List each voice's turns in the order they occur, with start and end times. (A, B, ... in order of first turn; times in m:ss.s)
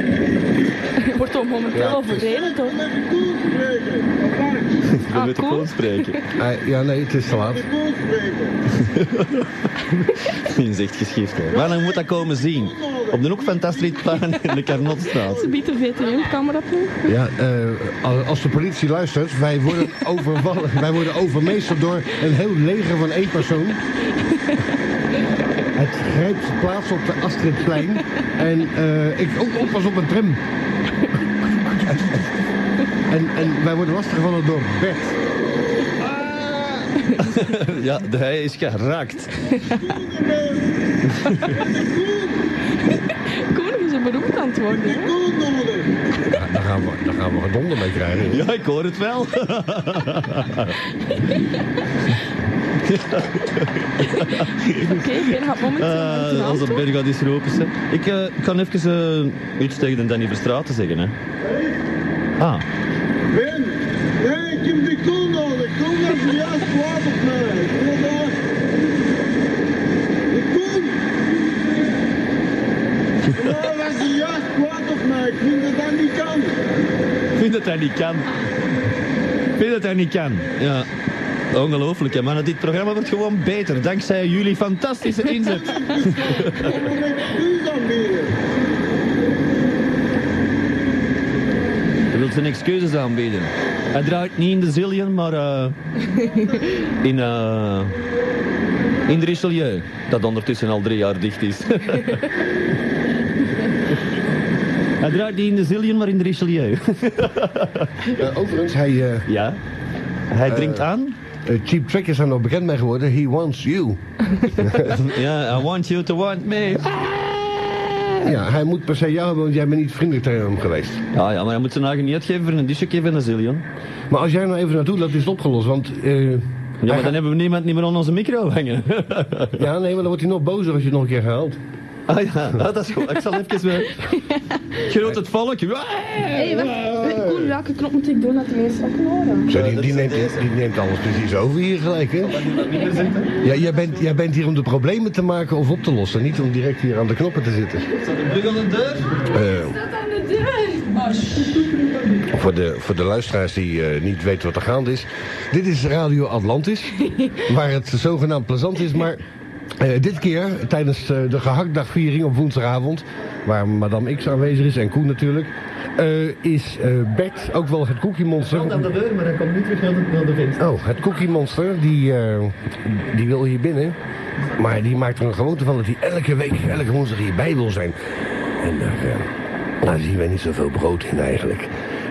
0:01.0-0:02.8 A
0:01.7-0:02.1 B
0:01.8-0:04.8 C
0:05.0-0:06.2 D
0:05.1-0:06.2 A
0:06.4-0:07.6 B
0:07.3-0:08.6 C
0:08.8-0:09.5 D
0:10.0-0:15.5 D
0:11.5-0:15.6 C
0:15.2-0:17.1 A
0:17.1-0:23.8 B
0:25.8-0:30.4 B
0:31.4-0:32.2 B
0:33.1-0:35.2 B
0:36.0-0:36.9 B
0:37.2-0:39.4 D
0:39.6-0:40.7 C
0:41.1-0:41.5 D
0:41.3-0:42.5 C
0:43.4-0:45.2 A
0:44.7-0:45.9 C
0:46.3-0:48.5 B
0:48.3-0:50.8 D
0:52.8-1:01.2 D
0:54.2-0:56.8 A
1:02.4-1:02.6 D
1:03.3-1:08.4 C
1:10.3-1:12.0 C
1:13.3-1:16.6 C
1:17.4-1:18.3 D
1:19.6-1:20.9 D
1:21.5-1:26.7 D
1:25.4-1:28.4 C
1:32.1-1:35.8 D
1:37.0-1:38.0 D
1:39.1-1:42.3 D
1:45.0-1:48.0 D
1:48.1-1:49.3 B
1:49.3-1:49.6 D
1:50.3-1:51.2 D
1:50.4-1:50.9 B
1:51.4-1:55.0 B
1:54.8-1:58.2 D
1:58.2-2:01.0 B
2:01.1-2:03.7 D
2:04.1-2:07.2 B
2:06.8-2:09.6 D
2:09.6-2:11.6 B
2:12.1-2:14.0 D
2:14.8-2:17.0 D
2:16.3-2:19.5 A
2:17.0-2:17.5 B
2:19.5-2:22.4 B
2:19.5-2:20.5 D
2:22.3-2:23.4 D
2:23.4-2:27.9 B
2:28.0-2:29.2 D
2:29.3-2:29.8 B
2:30.1-2:31.6 A
2:32.3-2:39.2 B
2:39.8-2:48.9 B
2:48.5-2:50.6 D
2:50.6-2:54.0 B
2:54.6-2:58.0 B
2:58.6-2:59.3 B
2:59.8-3:01.7 B